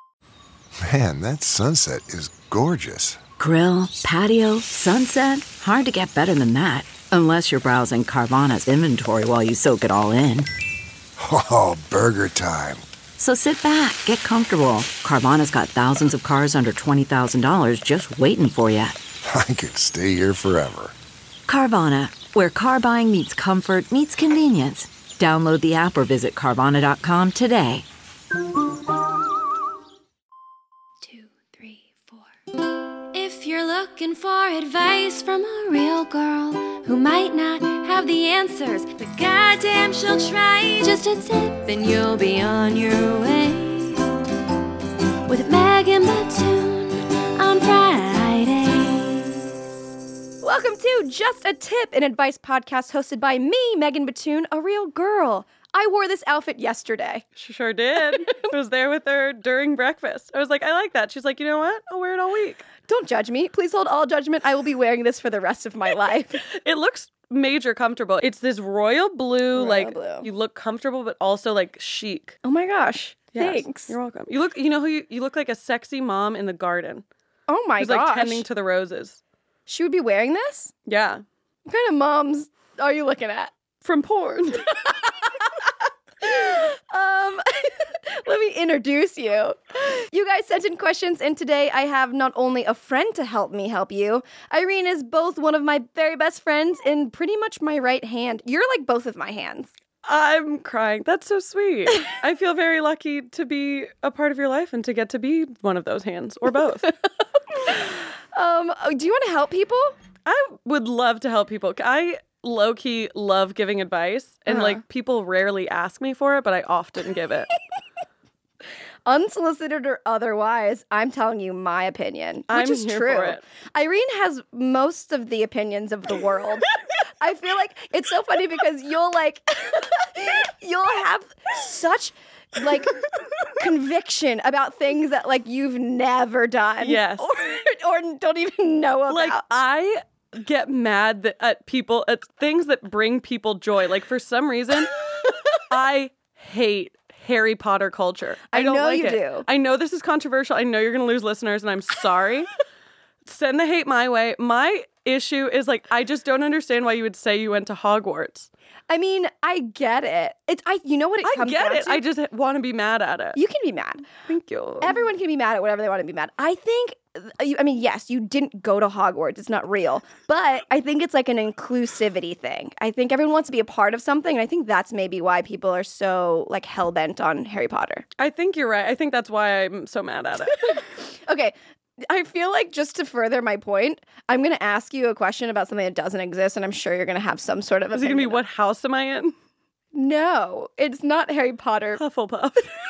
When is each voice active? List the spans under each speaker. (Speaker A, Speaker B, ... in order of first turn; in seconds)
Speaker A: 0.8-3.2, 11.2-12.8, 19.2-20.9
Speaker B: 3.4-10.5, 13.2-19.0, 21.5-27.9
Speaker C: 31.0-32.3, 33.1-44.1, 45.3-49.5
Speaker D: 50.4-57.2, 58.0-58.5, 62.9-66.4, 69.5-70.3, 72.4-74.0, 77.5-78.5, 79.7-80.7, 81.7-83.5, 84.8-85.4, 86.2-99.7, 107.6-110.0, 114.5-114.8, 119.1-126.7, 127.2-133.0, 133.5-139.4, 148.5-149.4, 158.9-162.0, 163.4-164.1, 164.8-178.1, 180.7-181.6, 182.1-188.4, 189.9-192.0
Speaker E: 57.4-62.7, 66.6-72.4, 73.3-77.0, 77.8-79.2, 80.9-81.2, 83.8-84.7, 100.0-106.9, 110.3-117.5, 122.5-123.4, 136.8-137.3, 139.1-152.5, 153.2-158.5, 161.2-163.4, 164.3-165.0, 178.2-180.8, 187.9-189.3, 192.0-192.7